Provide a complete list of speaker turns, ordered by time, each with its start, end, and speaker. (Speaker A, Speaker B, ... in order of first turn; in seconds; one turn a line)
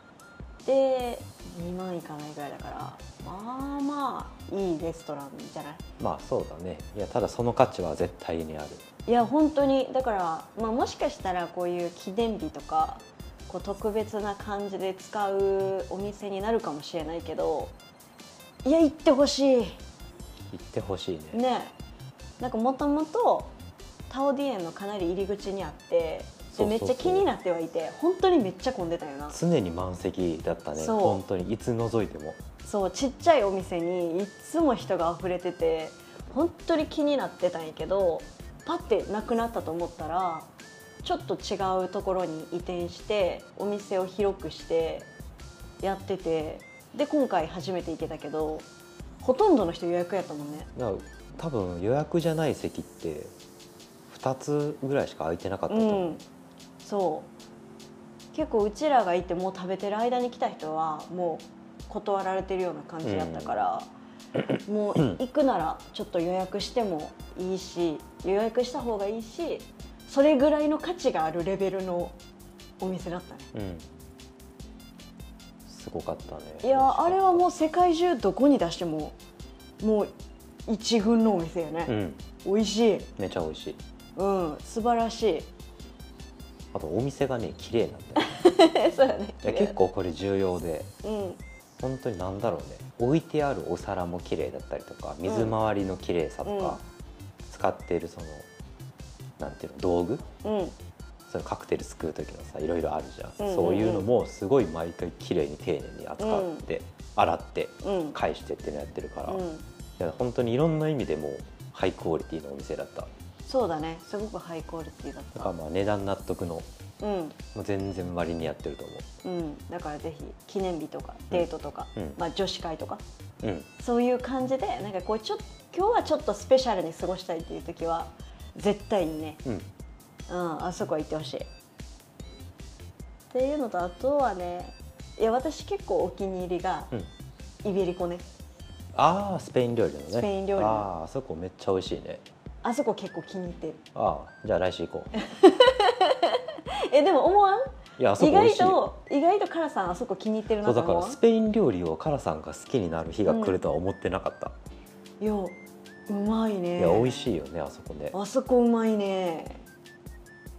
Speaker A: 0.7-5.8
Speaker B: 6.0-8.8
Speaker A: 9.1-17.7
Speaker A: 18.6-19.8
Speaker B: 20.5-21.4
Speaker A: 21.3-21.7
Speaker A: 22.4-23.5
Speaker A: 24.1-29.4
Speaker B: 26.5-27.3
Speaker B: 29.3-32.4
Speaker A: 30.8-31.2
Speaker A: 32.6-40.5
Speaker A: 41.0-45.1
Speaker A: 45.8-48.7
Speaker A: 49.2-50.7
Speaker B: 50.8-53.3
Speaker B: 54.1-56.2
Speaker A: 55.7-56.2
Speaker A: 56.8-57.3
Speaker A: 58.3-63.9
Speaker B: 63.0-63.6
Speaker A: 64.7-72.2
Speaker A: 72.8-73.5
Speaker B: 73.5-73.9
Speaker B: 75.7-77.5
Speaker A: 76.6-79.2
Speaker A: 79.8-80.1
Speaker A: 80.7-83.1
Speaker B: 81.9-82.2
Speaker B: 83.2-83.8
Speaker A: 84.2-85.5
Speaker B: 86.7-88.3
Speaker A: 88.2-89.8
Speaker B: 89.4-90.9
Speaker A: 91.0-91.4
Speaker B: 91.8-96.8
Speaker A: 95.3-95.6
Speaker A: 96.5-96.8
Speaker B: 97.5-98.5
Speaker B: 99.4-100.2
Speaker A: 100.4-100.8
Speaker B: 101.3-109.4
Speaker A: 103.4-104.1
Speaker A: 106.2-106.7
Speaker A: 107.8-108.2
Speaker A: 109.3-109.7
Speaker B: 110.0-113.1
Speaker A: 113.5-115.5
Speaker B: 115.3-116.7
Speaker A: 117.0-117.4
Speaker B: 117.5-119.1
Speaker A: 119.2-123.0
Speaker B: 121.3-122.2
Speaker B: 123.4-123.7
Speaker A: 123.8-129.4
Speaker A: 130.3-131.5
Speaker A: 133.3-136.9
Speaker A: 137.6-138.2
Speaker B: 138.9-142.2
Speaker A: 140.1-140.9
Speaker A: 142.6-143.8
Speaker B: 143.9-145.1
Speaker A: 145.2-151.2
Speaker B: 148.0-148.8
Speaker B: 150.6-154.6
Speaker A: 153.3-153.6
Speaker A: 155.2-155.6
Speaker A: 156.1-157.3
Speaker B: 156.8-158.2
Speaker A: 158.1-159.6